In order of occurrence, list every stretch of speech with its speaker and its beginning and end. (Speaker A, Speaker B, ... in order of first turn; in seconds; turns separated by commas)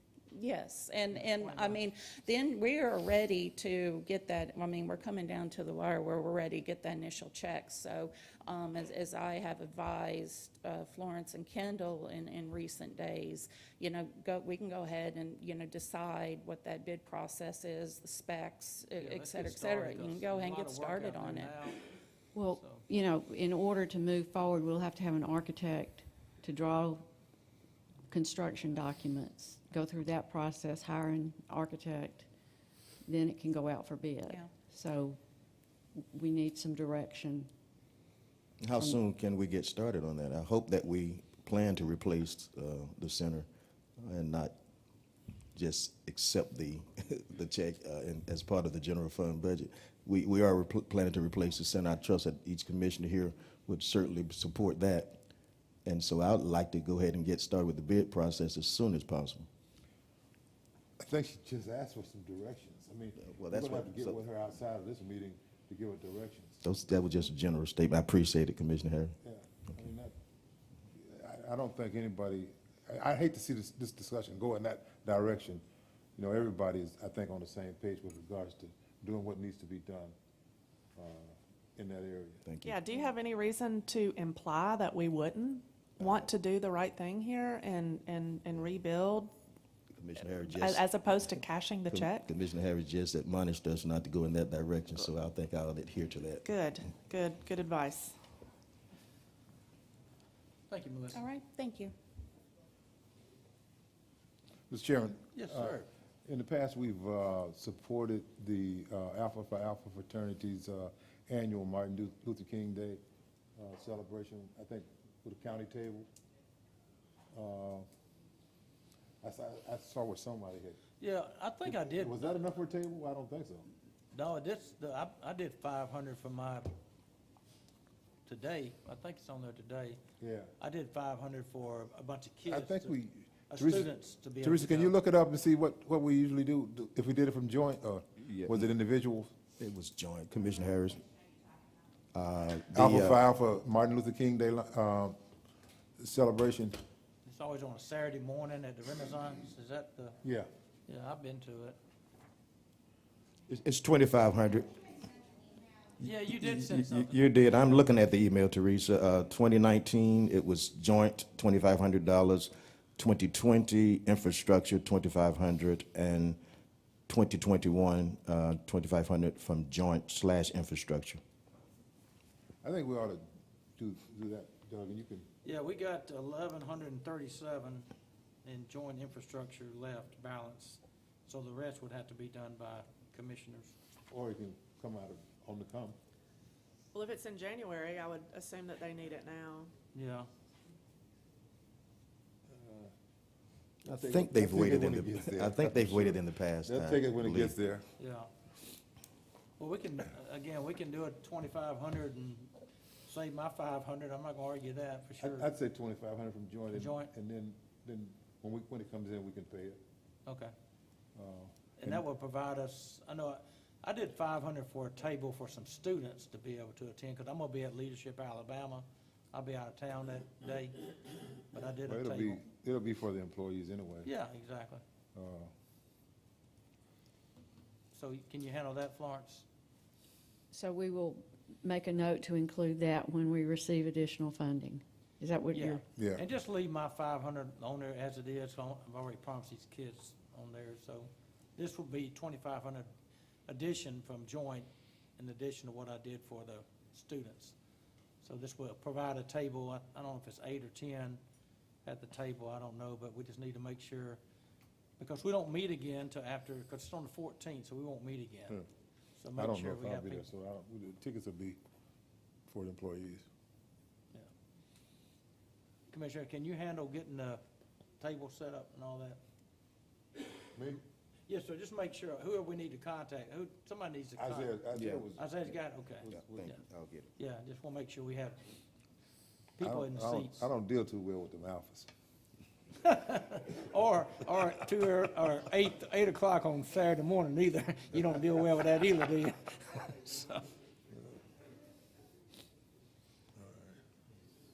Speaker A: 0.3-21.7, Speaker B: 1.1-1.8, Speaker B: 19.0-21.8, Speaker C: 22.4-27.1, Speaker B: 22.5-22.9, Speaker C: 28.1-32.3, Speaker C: 33.1-35.2, Speaker A: 34.3-34.5, Speaker C: 36.1-37.5, Speaker D: 38.6-43.5, Speaker D: 44.0-44.5, Speaker D: 45.5-55.2, Speaker D: 55.9-59.5, Speaker E: 61.0-66.6, Speaker D: 63.2-64.2, Speaker D: 66.6-69.2, Speaker E: 69.2-70.2, Speaker E: 71.0-75.6, Speaker E: 76.2-80.2, Speaker E: 81.0-82.4, Speaker D: 82.5-82.8, Speaker F: 82.6-89.3, Speaker D: 90.0-91.3, Speaker F: 90.4-92.3, Speaker D: 91.9-96.4, Speaker F: 96.4-98.2, Speaker B: 100.7-101.3, Speaker A: 101.1-101.9, Speaker E: 104.7-113.0, Speaker B: 105.3-105.9, Speaker E: 113.6-116.1, Speaker E: 117.3-117.9, Speaker E: 119.2-120.8, Speaker B: 121.0-122.4, Speaker E: 121.7-123.7, Speaker B: 124.1-126.7, Speaker B: 128.3-130.0, Speaker E: 130.2-130.5, Speaker B: 130.6-133.0, Speaker E: 132.5-139.3, Speaker B: 133.5-135.0, Speaker D: 138.3-138.6, Speaker D: 139.6-141.1, Speaker D: 142.1-143.2, Speaker E: 142.7-145.2, Speaker E: 146.0-146.8, Speaker B: 147.3-150.2, Speaker B: 150.9-151.8, Speaker D: 153.5-154.7, Speaker B: 156.0-157.8, Speaker D: 156.3-166.4, Speaker D: 167.1-171.2, Speaker E: 172.6-173.2, Speaker E: 173.8-175.3, Speaker B: 175.4-177.9, Speaker B: 178.4-183.7, Speaker E: 184.1-186.0, Speaker F: 186.9-189.7, Speaker B: 189.9-190.3, Speaker E: 192.5-192.9, Speaker E: 193.8-197.9, Speaker D: 193.9-197.6, Speaker B: 198.0-198.3, Speaker B: 199.6-202.5, Speaker B: 203.1-205.5, Speaker E: 205.2-209.8, Speaker B: 206.7-207.1, Speaker B: 210.3-210.5, Speaker E: 211.2-212.0, Speaker B: 211.8-220.9, Speaker B: 221.5-222.4, Speaker E: 221.9-224.1, Speaker B: 224.1-224.8, Speaker E: 225.2-225.5, Speaker B: 227.9-229.4, Speaker C: 230.5-235.8, Speaker B: 235.5-242.9, Speaker E: 236.0-236.2, Speaker B: 243.5-247.6, Speaker B: 248.2-251.2, Speaker B: 251.8-254.2, Speaker B: 255.0-258.6, Speaker B: 259.2-260.2, Speaker E: 259.4-261.6, Speaker E: 262.5-263.3, Speaker B: 265.9-267.4, Speaker B: 268.0-269.2, Speaker E: 270.6-270.8, Speaker B: 271.3-274.6, Speaker E: 274.2-275.3, Speaker D: 274.7-275.1, Speaker B: 275.2-276.6, Speaker E: 276.0-276.5, Speaker D: 276.1-277.1, Speaker B: 277.2-278.4, Speaker B: 279.6-280.5, Speaker E: 279.6-281.9, Speaker B: 282.8-290.4, Speaker E: 293.4-293.7